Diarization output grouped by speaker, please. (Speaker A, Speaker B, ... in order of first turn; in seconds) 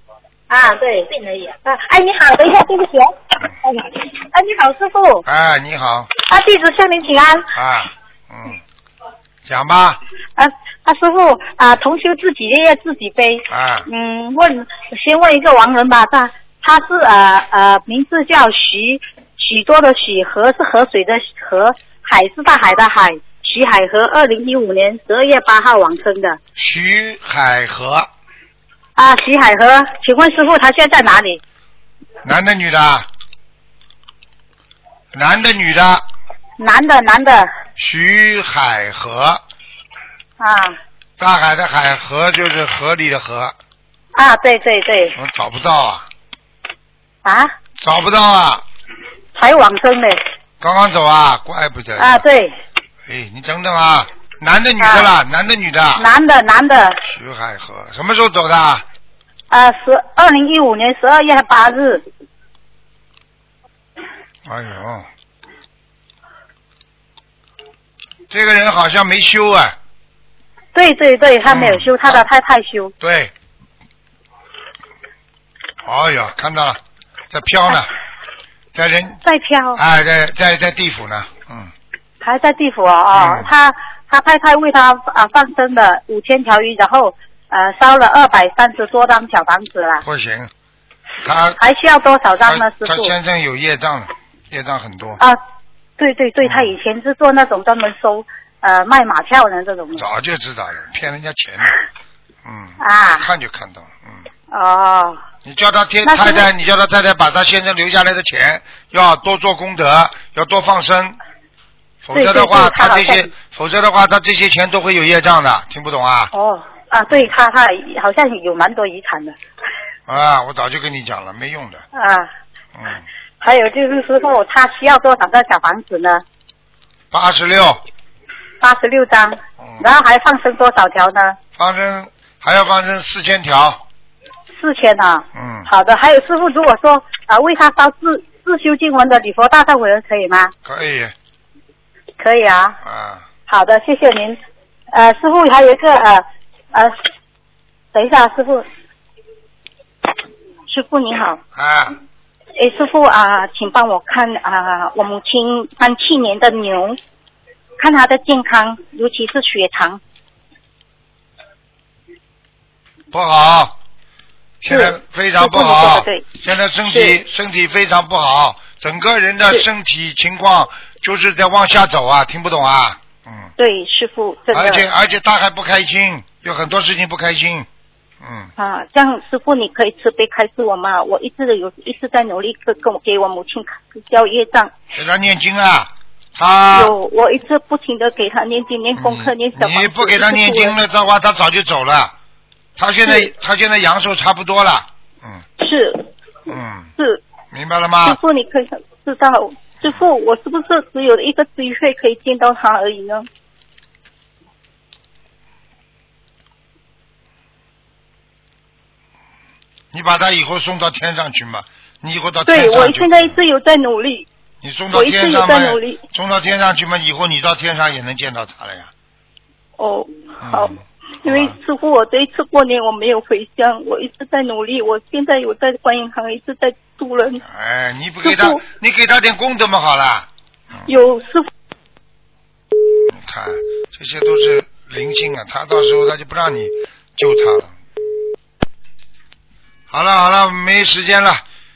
Speaker A: 0.5-3.1, 3.6-5.2, 6.2-7.5, 10.4-26.4, 29.0-31.4, 36.6-37.5, 40.4-40.7, 44.1-45.2, 47.2-47.5, 49.3-50.2, 52.0-52.5, 54.8-55.1, 56.0-57.0, 59.5-62.0, 70.7-72.9, 79.2-79.8, 82.2-90.0, 91.6-93.2, 96.0-100.0, 102.8-103.3, 104.5-105.2, 106.0-106.5, 112.1-113.3, 116.3-119.3, 121.9-122.3, 123.4-126.2, 128.6-131.4, 134.5-140.5, 142.2-142.8, 143.5-144.4, 144.9-146.9, 147.9-148.6, 150.7-151.4, 152.6-157.0, 157.8-160.0, 164.7-166.2, 166.9-167.2, 173.6-174.8, 178.6-184.7, 186.7-190.8, 193.0-193.3, 195.6-197.2, 198.0-203.3, 212.4-214.2, 214.9-216.0, 219.8-227.4, 228.2-228.6, 230.8-231.5
Speaker B: 5.2-6.1, 7.5-8.6, 9.4-10.0, 13.5-13.8, 26.6-28.1, 32.2-33.1, 35.1-36.0, 37.8-39.4, 41.2-43.5, 45.2-46.1, 47.8-48.6, 50.6-52.2, 53.0-56.0, 57.0-58.8, 64.5-65.1, 68.3-69.8, 71.5-72.2, 73.0-73.3, 75.8-76.8, 77.3-77.9, 78.7-79.2, 79.8-81.7, 83.1-83.5, 90.0-90.5, 91.2-91.6, 92.4-95.2, 96.4-96.7, 100.0-101.8, 102.4-104.2, 105.4-111.2, 112.0-116.3, 120.1-121.8, 122.7-123.0, 127.1-127.8, 131.6-133.8, 135.3-135.7, 140.6-141.1, 142.8-143.2, 151.5-152.0, 163.1-163.8, 164.6-173.5, 174.5-177.7, 178.2-178.5, 184.9-186.9, 189.0-192.1, 192.8-195.4, 196.5-196.9, 197.5-198.2, 209.9-213.3, 214.6-218.9, 220.4-221.5, 227.4-230.9, 233.1-237.7, 239.9-241.4